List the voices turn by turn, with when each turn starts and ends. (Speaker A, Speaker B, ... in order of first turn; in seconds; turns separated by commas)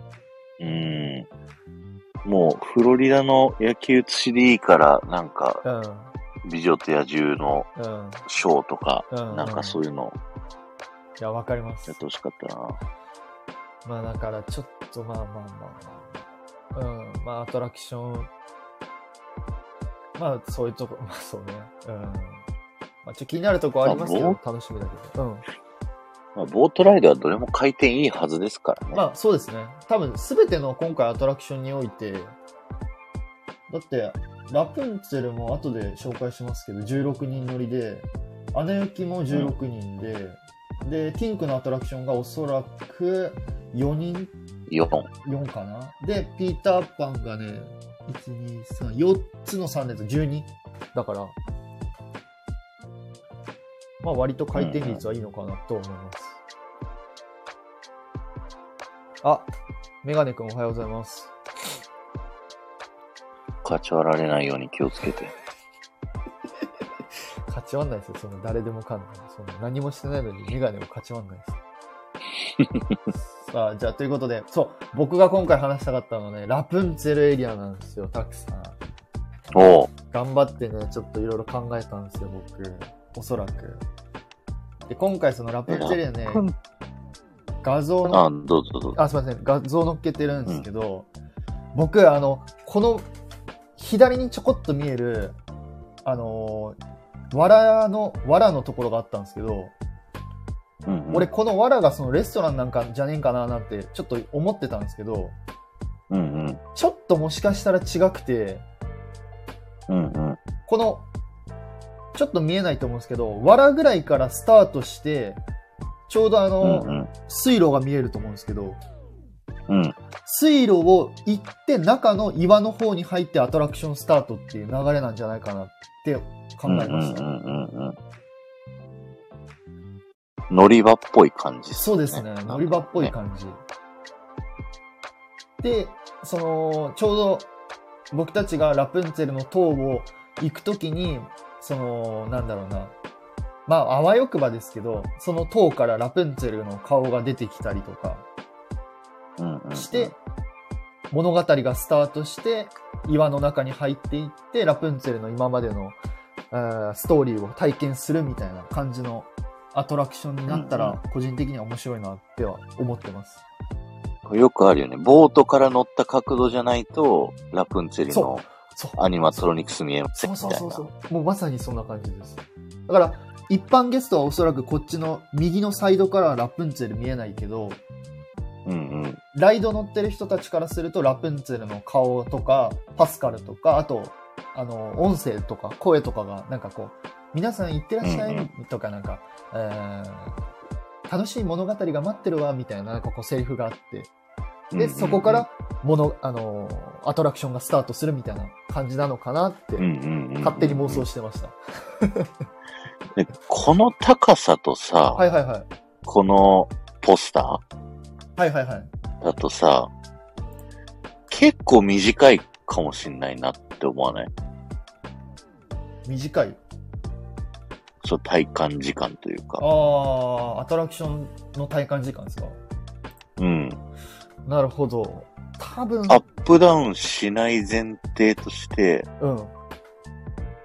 Speaker A: 0.6-1.3, Speaker A: 2.2-5.6, Speaker B: 5.7-6.1, Speaker A: 6.4-7.7, Speaker B: 7.8-8.3, Speaker A: 8.3-10.2, Speaker B: 9.1-9.8, Speaker B: 11.2-12.0, Speaker A: 11.9-12.8, Speaker B: 13.8-16.2, Speaker B: 16.7-18.3, Speaker B: 20.2-22.4, Speaker B: 23.0-25.5, Speaker A: 23.9-24.4, Speaker A: 26.4-29.1, Speaker B: 28.9-32.4, Speaker B: 33.7-44.3, Speaker A: 44.7-45.1, Speaker B: 45.2-51.4, Speaker B: 54.0-56.4, Speaker A: 54.5-55.0, Speaker B: 59.2-59.5, Speaker B: 60.0-61.3, Speaker A: 63.6-65.3, Speaker B: 67.5-71.6, Speaker A: 72.6-73.0, Speaker B: 73.4-78.8, Speaker A: 79.5-79.9, Speaker B: 80.1-83.8, Speaker B: 84.9-86.5, Speaker A: 85.7-86.5, Speaker B: 87.6-88.3, Speaker A: 88.1-89.0, Speaker B: 88.9-91.1, Speaker B: 91.7-93.1, Speaker B: 93.8-95.4, Speaker B: 96.0-96.8, Speaker B: 97.3-99.7, Speaker A: 100.9-101.3, Speaker B: 101.1-105.4, Speaker A: 106.1-106.6, Speaker B: 106.8-108.7, Speaker A: 109.9-110.4, Speaker B: 110.7-111.1, Speaker B: 112.2-115.4, Speaker B: 116.1-118.8, Speaker A: 116.6-117.1, Speaker A: 119.7-120.0, Speaker B: 120.2-127.3, Speaker A: 126.7-128.0, Speaker A: 130.5-133.1, Speaker B: 131.8-133.6, Speaker B: 135.6-137.5, Speaker B: 138.1-142.9, Speaker B: 143.7-148.3, Speaker A: 149.4-150.1, Speaker B: 149.8-150.2, Speaker B: 151.1-156.0, Speaker B: 156.5-163.4, Speaker A: 160.5-161.0, Speaker A: 164.2-168.4, Speaker B: 168.1-169.5, Speaker A: 169.0-170.9, Speaker B: 170.2-177.8, Speaker A: 178.7-179.2, Speaker B: 179.3-190.4, Speaker A: 188.0-188.5, Speaker B: 191.1-194.1, Speaker A: 194.7-195.5, Speaker B: 194.8-199.9, Speaker A: 199.8-201.1, Speaker B: 200.4-202.3, Speaker A: 203.2-205.2, Speaker B: 205.2-205.7, Speaker A: 206.1-207.6, Speaker B: 208.4-208.9, Speaker A: 209.2-209.9, Speaker A: 211.3-214.3, Speaker B: 216.1-216.6, Speaker A: 218.0-219.6, Speaker B: 219.6-222.6, Speaker A: 223.4-223.8, Speaker B: 224.5-226.2, Speaker A: 226.1-229.1, Speaker B: 229.2-229.5